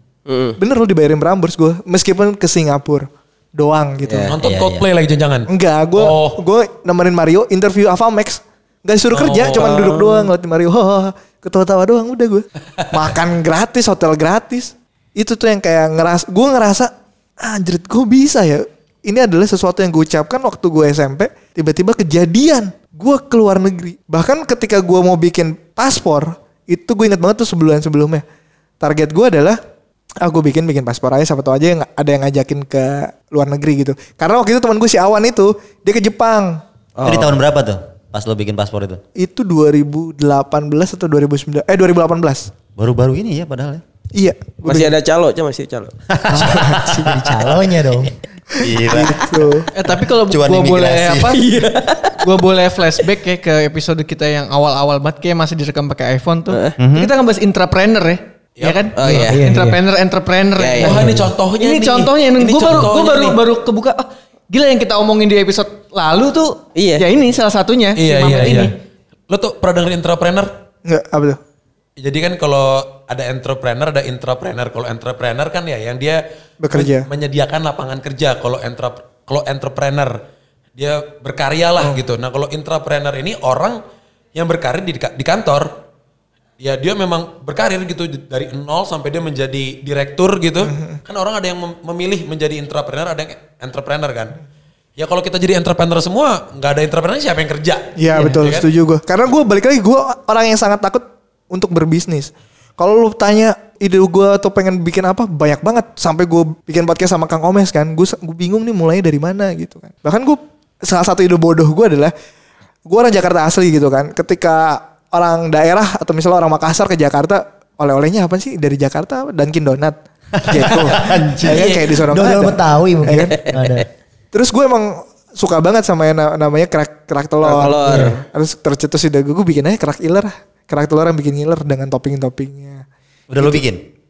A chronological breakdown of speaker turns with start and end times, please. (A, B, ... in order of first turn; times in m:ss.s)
0:00.3-0:00.6 A
0:00.6-0:04.3 B
0:04.0-0:04.3 A
0:04.3-0:06.4 C
0:04.4-0:04.9 D
0:05.5-0:28.2 B
0:09.1-0:10.0 C
0:09.6-0:10.3 A
0:28.8-0:29.6 B
0:30.2-0:36.6 B
0:37.0-0:37.4 A
0:37.0-0:39.0 D
0:39.2-0:42.5 B
0:42.8-0:43.8 D
0:44.1-0:45.0 B
0:44.6-0:46.0 A
0:46.1-0:47.1 D
0:46.3-0:48.1 E
0:46.4-0:47.1 B
0:48.5-0:49.7 B
0:48.6-0:49.3 D
0:49.7-0:51.7 F
0:50.1-0:51.4 D
0:51.3-0:52.2 A
0:52.2-1:08.8 F
0:56.5-0:56.8 A
0:56.8-0:57.1 D
0:58.6-0:58.9 C
0:59.0-0:59.4 A
0:59.2-0:59.8 E
1:00.6-1:01.0 A
1:00.8-1:03.4 C
1:00.9-1:01.3 E
1:06.8-1:07.0 A
1:08.0-1:08.7 C
1:09.3-1:10.6 C
1:10.9-1:11.4 B
1:12.0-1:20.2 C
1:16.6-1:17.1 B
1:20.8-1:23.8 C
1:24.4-1:25.8 C
1:26.6-1:34.4 C
1:30.6-1:31.0 B
1:35.0-1:38.7 C
1:38.0-1:52.1 B
1:52.9-2:03.4 B
2:00.6-2:03.9 E
2:01.4-2:02.0 C
2:03.1-2:03.8 A
2:04.3-2:12.8 B
2:07.4-2:08.2 A
2:07.9-2:08.2 E
2:13.3-2:13.8 D
2:13.4-2:13.6 B